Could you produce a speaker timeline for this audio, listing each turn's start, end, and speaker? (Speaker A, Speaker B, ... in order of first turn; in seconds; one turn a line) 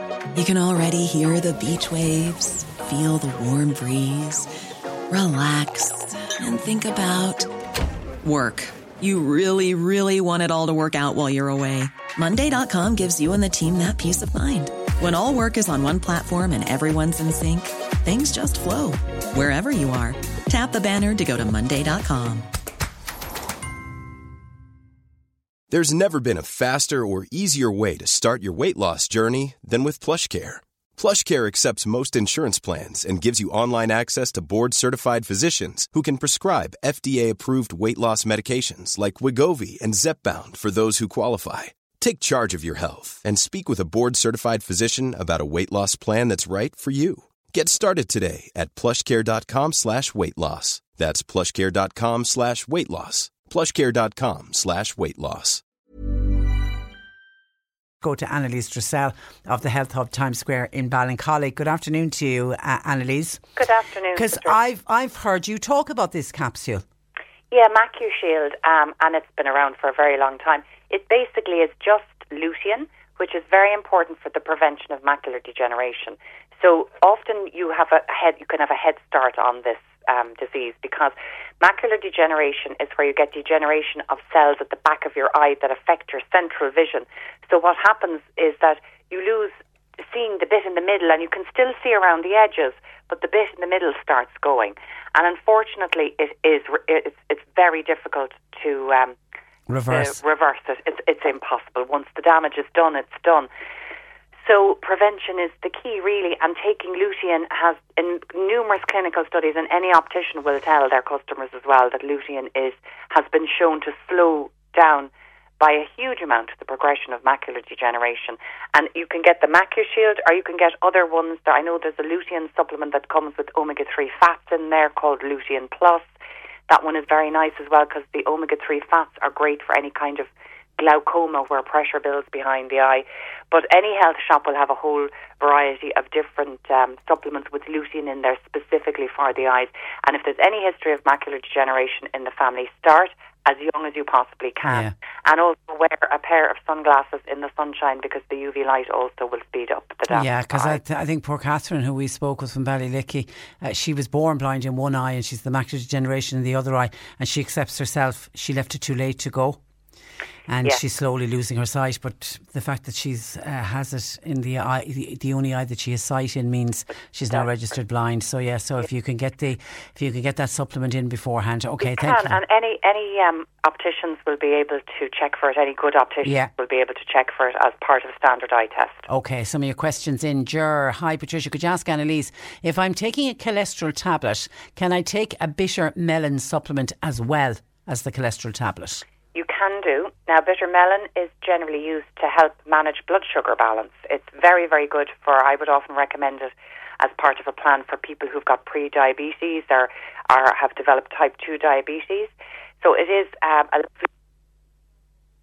Speaker A: 0.3-4.5
Speaker A: 5.1-7.5
Speaker A: 8.2-22.4
Speaker B: 25.7-55.6
Speaker C: 58.0-63.4
Speaker D: 63.5-64.6
Speaker C: 64.1-66.8
Speaker D: 67.5-89.5
Speaker D: 90.1-99.2
Speaker C: 99.7-100.2
Speaker D: 99.9-103.5
Speaker D: 104.4-126.0
Speaker D: 126.7-150.8
Speaker C: 144.6-144.9
Speaker C: 150.1-159.6
Speaker C: 160.5-172.4
Speaker D: 171.8-179.0
Speaker C: 176.2-176.5
Speaker C: 179.1-189.0
Speaker D: 189.3-204.1